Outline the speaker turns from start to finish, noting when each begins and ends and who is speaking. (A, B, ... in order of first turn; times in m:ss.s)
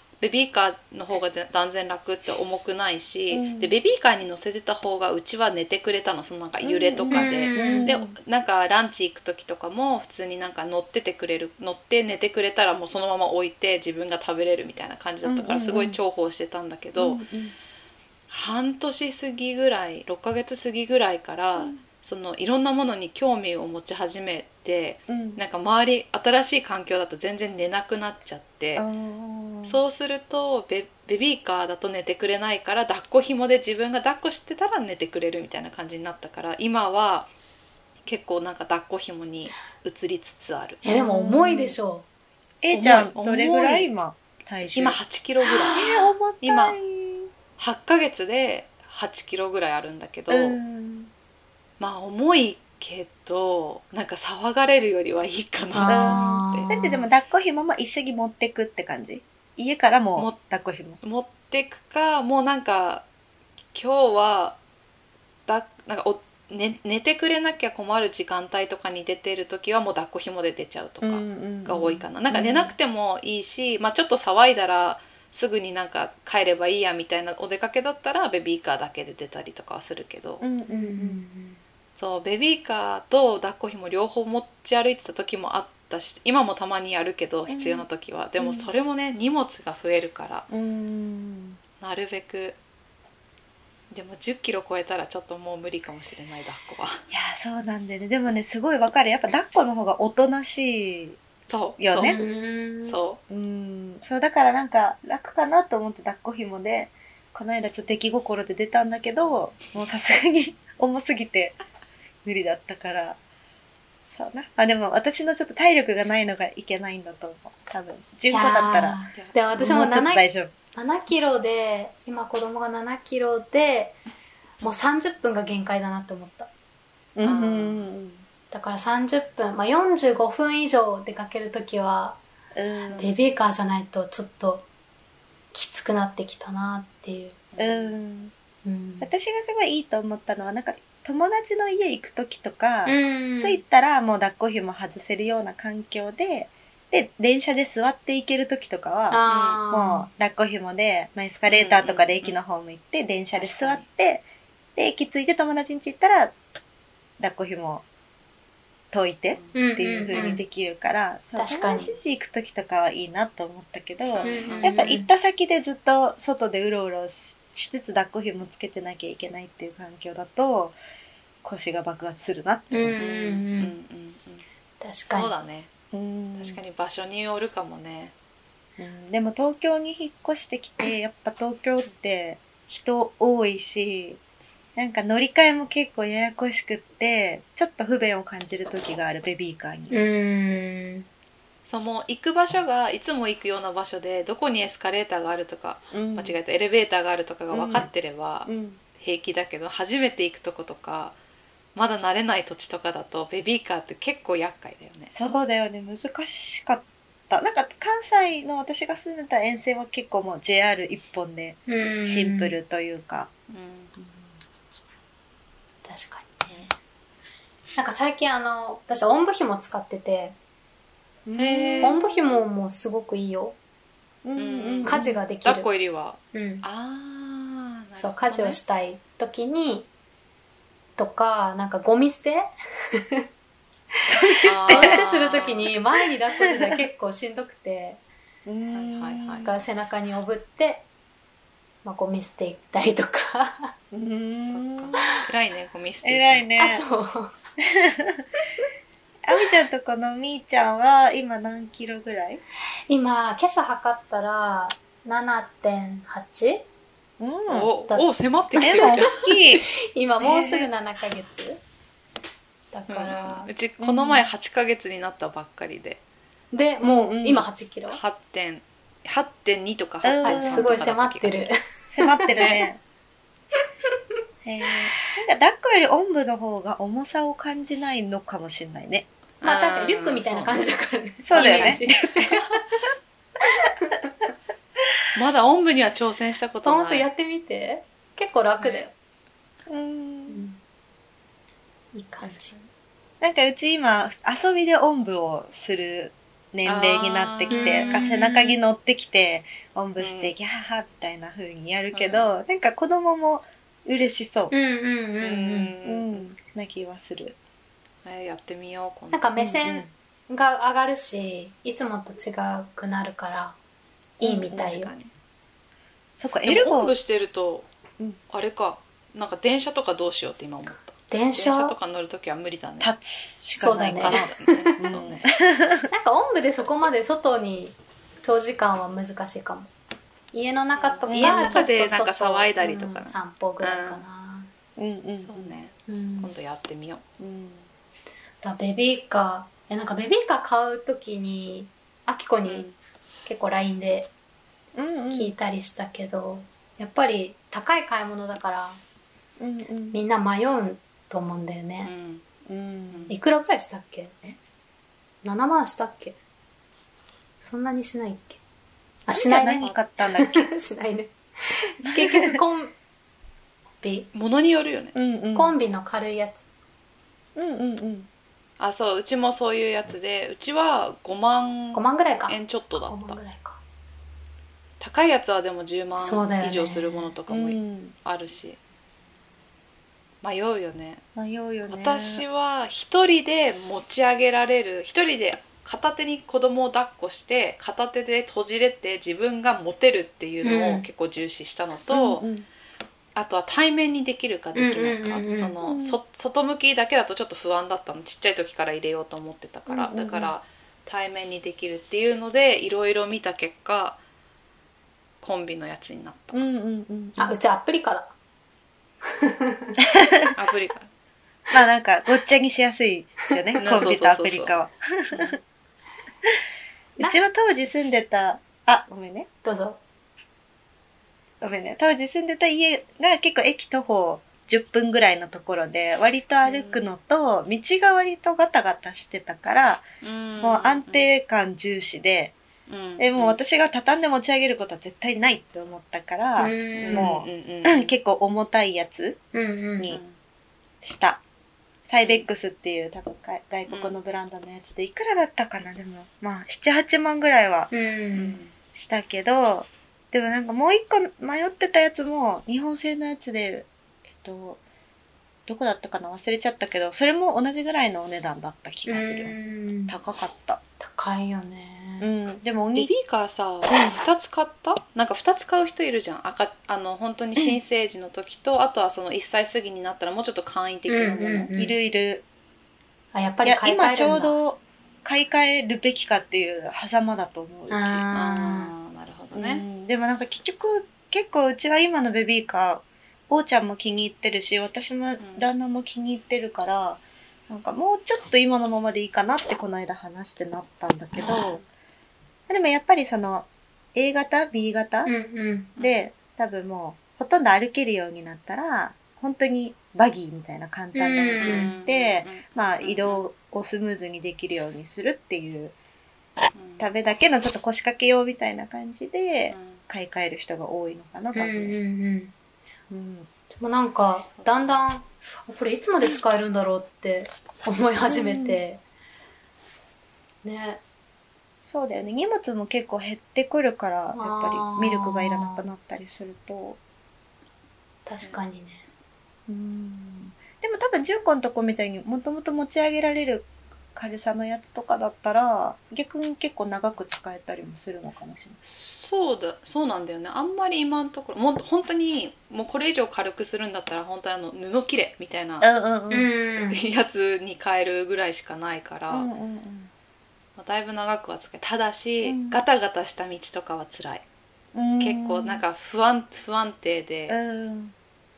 0:00.2-0:17.2 A
0:03.3-0:03.7 B
0:06.6-0:08.2 B
0:07.1-0:08.0 C
0:15.2-0:16.0 B
0:17.0-0:17.5 B
0:18.3-0:28.8 A
0:25.1-0:25.4 B
0:28.8-0:29.8 B
0:29.6-0:37.3 A
0:38.0-0:40.8 A
0:40.8-0:42.1 C
0:40.8-0:41.8 B
0:42.6-0:45.0 B
0:42.7-0:43.9 A
0:44.7-0:45.8 A
0:45.6-0:46.0 C
0:45.7-0:47.3 B
0:46.4-0:46.8 A
0:47.6-0:50.6 A
0:50.3-0:51.1 B
0:51.8-0:56.7 A
0:55.7-0:57.0 C
0:55.8-1:01.0 B
1:01.0-1:03.0 A
1:03.7-1:04.6 A
1:05.5-1:20.4 A
1:11.0-1:12.7 B
1:20.4-1:21.2 B
1:20.7-1:21.6 C
1:22.0-1:30.5 A
1:27.5-1:27.8 B
1:28.4-1:28.7 B
1:30.5-1:31.6 B
1:31.8-1:32.6 A
1:33.9-1:37.0 A
1:37.1-1:41.2 B
1:41.5-1:42.2 A
1:41.8-1:42.2 B
1:42.0-1:43.0 C
1:42.8-1:43.2 A
1:43.3-1:51.6 B
1:52.2-1:53.2 B
1:54.1-1:59.0 B
1:58.3-2:04.0 C
1:59.1-1:59.4 A
1:59.5-2:00.5 B
2:04.6-2:06.5 C
2:04.6-2:04.9 A
2:07.2-2:08.2 B
2:07.2-2:07.9 A
2:08.5-2:12.2 C
2:12.5-2:13.2 B
2:12.9-2:14.7 C
2:15.5-2:17.4 C
2:17.5-2:17.9 A
2:17.6-2:18.3 B
2:18.6-2:19.1 C
2:19.0-2:34.2 B
2:22.8-2:23.6 C
2:29.1-2:30.1 C
2:29.2-2:29.6 A
2:31.5-2:32.4 A
2:33.3-2:33.8 A
2:34.8-2:36.3 B
2:37.2-2:37.8 B
2:38.9-2:50.8 B
2:39.3-2:40.3 A
2:39.5-2:40.4 C
2:41.4-2:41.9 C
2:41.7-2:42.0 A
2:44.1-2:44.8 A
2:44.2-2:45.1 C
2:51.4-2:53.0 B
2:52.7-2:53.7 C
2:53.0-2:54.4 A
2:54.8-2:55.3 C
2:55.1-2:55.7 A
2:55.9-2:56.6 B
2:56.4-2:58.1 A
2:58.8-3:04.2 B
3:04.8-3:10.1 B
3:09.9-3:11.1 C
3:11.6-3:21.2 A
3:15.9-3:16.4 B
3:17.5-3:17.9 B
3:18.4-3:18.8 B
3:21.8-3:25.1 A
3:25.1-3:33.3 B
3:31.7-3:32.5 C
3:33.5-3:33.9 A
3:34.0-3:34.2 B
3:35.8-3:36.7 C
3:37.8-3:40.4 C
3:41.2-3:42.4 B
3:41.4-3:42.0 A
3:41.8-3:43.6 C
3:44.2-3:45.2 B
3:44.4-3:48.6 A
3:44.8-3:45.7 C
3:46.3-3:46.6 C
3:48.0-3:49.9 C
3:51.0-3:52.5 C
3:54.1-3:55.1 B
3:54.5-3:55.7 A
3:54.7-3:58.0 C
3:56.3-3:56.9 B
3:58.4-3:59.5 B
3:58.7-3:59.5 A
3:59.4-4:00.8 C
4:01.8-4:03.7 C
4:03.9-4:05.1 B
4:04.4-4:06.5 A
4:06.0-4:06.8 B
4:06.6-4:07.3 C
4:07.8-4:08.2 B
4:09.2-4:12.4 B
4:12.9-4:16.7 C
4:17.2-4:17.7 B
4:17.5-4:19.2 A
4:17.9-4:18.9 C
4:18.6-4:19.7 B
4:19.9-4:21.6 C
4:20.2-4:20.7 B
4:22.7-4:23.5 C
4:22.9-4:26.0 A
4:23.8-4:24.3 B
4:26.5-4:28.0 C
4:26.8-4:27.5 B
4:27.9-4:31.5 A
4:30.0-4:30.9 B
4:30.2-4:32.6 C
4:31.9-4:32.8 B
4:32.3-4:32.7 A
4:34.4-4:39.1 B
4:39.4-4:40.7 A
4:39.4-4:42.8 C
4:41.2-4:42.4 B
4:41.3-4:41.8 A
4:43.4-4:44.1 C
4:45.1-4:47.1 A
4:46.6-4:48.9 C
4:48.6-4:48.9 A
4:49.7-4:50.4 B
4:50.3-4:50.6 C
4:51.9-4:52.5 C
4:52.2-4:52.7 A
4:53.2-5:04.5 B
4:56.6-4:58.0 A
4:57.5-4:58.6 C
5:00.0-5:00.3 A
5:01.9-5:02.3 A
5:04.5-5:05.7 C
5:05.2-5:06.2 A
5:05.8-5:07.4 B
5:08.0-5:09.3 A
5:09.1-5:13.6 C
5:09.4-5:09.9 B
5:14.2-5:14.9 C
5:14.2-5:14.7 B
5:14.5-5:15.1 A
5:16.2-5:16.9 B
5:16.4-5:17.7 A
5:18.3-5:22.9 A
5:21.1-5:21.8 C
5:22.8-5:25.8 B
5:23.6-5:24.8 C
5:23.9-5:25.3 A
5:25.9-5:29.7 C
5:30.3-5:34.5 C
5:30.7-5:34.0 A
5:31.1-5:31.7 B
5:34.8-5:35.5 B
5:35.3-5:37.0 A
5:35.9-5:36.3 C
5:37.2-5:37.7 B
5:38.4-5:42.7 C
5:42.4-5:42.7 A
5:43.2-5:44.1 C
5:44.8-5:45.3 B
5:45.1-5:48.8 C
5:49.4-5:50.0 B
5:49.9-5:51.9 C
5:51.8-5:52.2 A
5:52.4-5:53.1 B
5:52.9-5:53.2 A
5:53.1-5:54.2 C
5:55.2-5:56.2 C
5:57.4-5:58.4 C
5:59.1-6:02.7 C
5:59.1-6:00.5 B
6:01.8-6:02.4 B
6:03.8-6:04.1 C
6:04.1-6:04.9 A
6:04.9-6:05.6 B
6:05.3-6:06.4 C
6:07.4-6:08.1 B
6:08.6-6:13.2 A
6:11.7-6:13.6 C
6:14.8-6:18.6 A
6:16.0-6:17.1 C
6:17.3-6:17.9 B
6:20.2-6:21.0 A
6:21.2-6:22.2 B
6:21.7-6:32.2 A
6:30.4-6:30.8 C
6:31.9-6:32.5 B
6:33.2-6:44.0 A
6:34.5-6:35.5 C
6:35.6-6:36.0 B
6:39.7-6:40.3 B
6:45.2-6:46.4 A
6:46.3-6:47.4 B
6:47.2-6:48.1 C
6:49.0-6:49.8 C
6:50.0-6:50.3 B
6:50.4-6:50.9 A
6:51.5-6:55.4 B
6:53.5-6:53.8 C
6:53.6-6:54.6 A
6:55.1-6:55.4 A
6:57.0-6:59.3 B
6:59.4-6:59.8 C
7:01.4-7:09.8 B
7:06.4-7:06.9 A
7:10.0-7:11.1 A
7:10.4-7:12.4 B
7:12.7-7:13.4 A
7:13.0-7:19.2 B
7:16.4-7:17.1 C
7:16.9-7:17.9 A
7:19.3-7:19.9 C
7:19.9-7:20.2 A
7:20.8-7:21.2 B
7:21.9-7:27.7 B
7:22.0-7:22.3 A
7:23.7-7:24.0 A
7:27.7-7:28.4 C
7:28.1-7:28.5 A
7:28.7-7:33.7 B
7:34.2-7:34.6 B
7:35.5-7:39.4 B
7:38.9-7:40.0 C
7:39.9-7:40.6 B
7:40.8-7:42.1 C
7:42.0-7:42.9 B
7:42.7-7:51.5 A
7:43.7-7:44.0 B
7:50.9-7:51.8 C
7:51.5-7:52.2 B
7:53.1-7:54.4 C
7:53.4-7:58.1 B
7:57.7-7:58.7 C
7:58.1-7:59.6 A
7:59.3-8:11.6 B
8:05.2-8:05.5 A
8:11.2-8:11.6 A
8:12.5-8:15.1 B
8:15.0-8:15.7 C
8:15.8-8:16.0 A
8:15.8-8:25.7 B
8:20.9-8:21.7 C
8:21.4-8:23.2 A
8:26.5-8:26.9 A
8:26.8-8:31.8 B
8:29.5-8:29.8 A
8:31.3-8:32.3 C
8:32.9-8:33.3 B
8:33.6-8:38.8 C
8:34.3-8:34.9 A
8:38.1-8:38.6 B
8:40.4-8:40.8 C
8:41.6-8:46.8 B
8:44.1-8:45.6 C
8:48.0-8:48.8 C
8:49.5-8:58.6 B
8:58.6-9:05.7 A
9:05.6-9:06.3 B
9:06.1-9:06.8 C
9:06.6-9:09.3 A
9:09.1-9:09.9 B
9:10.6-9:14.2 A
9:12.2-9:12.6 B
9:14.7-9:15.6 B
9:15.0-9:17.4 A
9:17.3-9:17.9 B